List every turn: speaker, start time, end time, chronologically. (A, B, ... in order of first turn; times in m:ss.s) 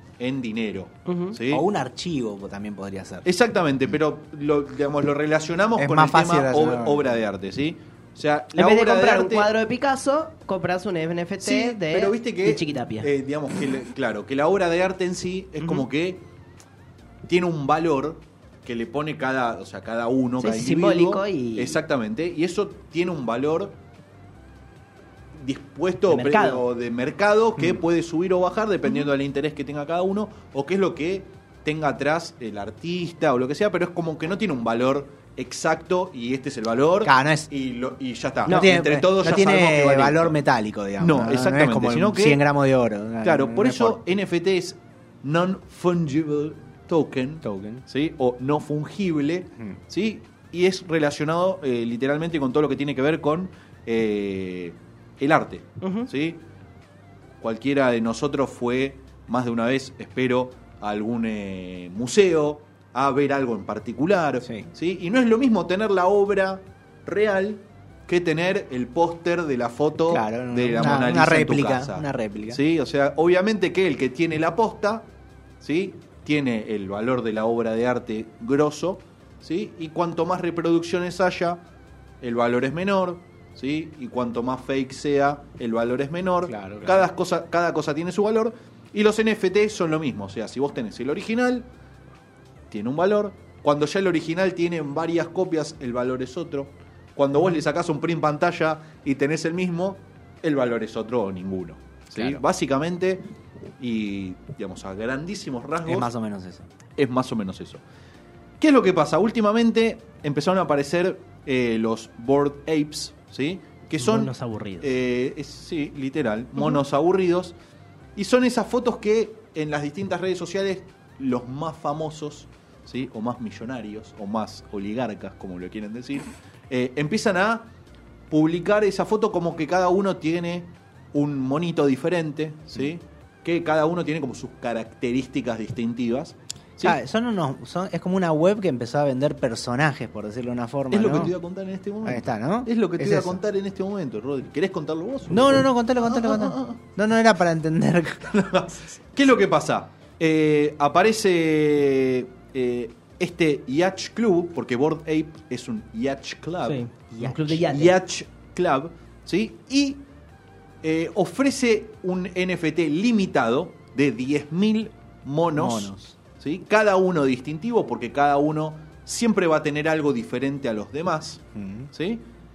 0:00.2-0:01.6 A
0:01.1-0:01.4 B
0:01.5-0:03.3 C
0:03.2-0:09.5 A
0:05.8-0:07.2 C
0:08.6-0:13.1 B
0:11.4-0:16.2 A
0:17.3-0:23.8 A
0:20.4-0:21.8 B
0:25.4-0:40.4 A
0:26.1-0:26.6 B
0:37.0-0:37.5 C
0:38.5-0:38.7 B
0:38.5-0:44.0 C
0:41.0-0:42.4 A
0:43.2-0:56.4 A
0:47.4-0:47.8 C
0:55.8-0:56.1 B
0:57.4-1:15.1 A
1:10.1-1:12.6 C
1:15.6-1:21.6 A
1:22.2-1:31.7 A
1:26.5-1:27.1 C
1:32.7-1:43.2 A
1:42.1-1:42.4 C
1:43.8-1:46.1 A
1:45.9-1:46.6 C
1:47.0-1:47.8 A
1:48.6-1:57.5 A
1:54.0-1:54.9 B
1:58.2-2:07.7 A
2:08.3-2:17.0 A
2:16.8-2:21.3 C
2:20.9-2:26.8 A
2:22.0-2:23.4 C
2:25.3-2:28.3 C
2:28.3-2:36.8 A
2:36.6-2:38.0 B
2:37.1-2:37.6 C
2:37.5-2:40.0 A
2:40.8-2:52.2 A
2:45.5-2:46.2 C
2:51.6-2:51.9 C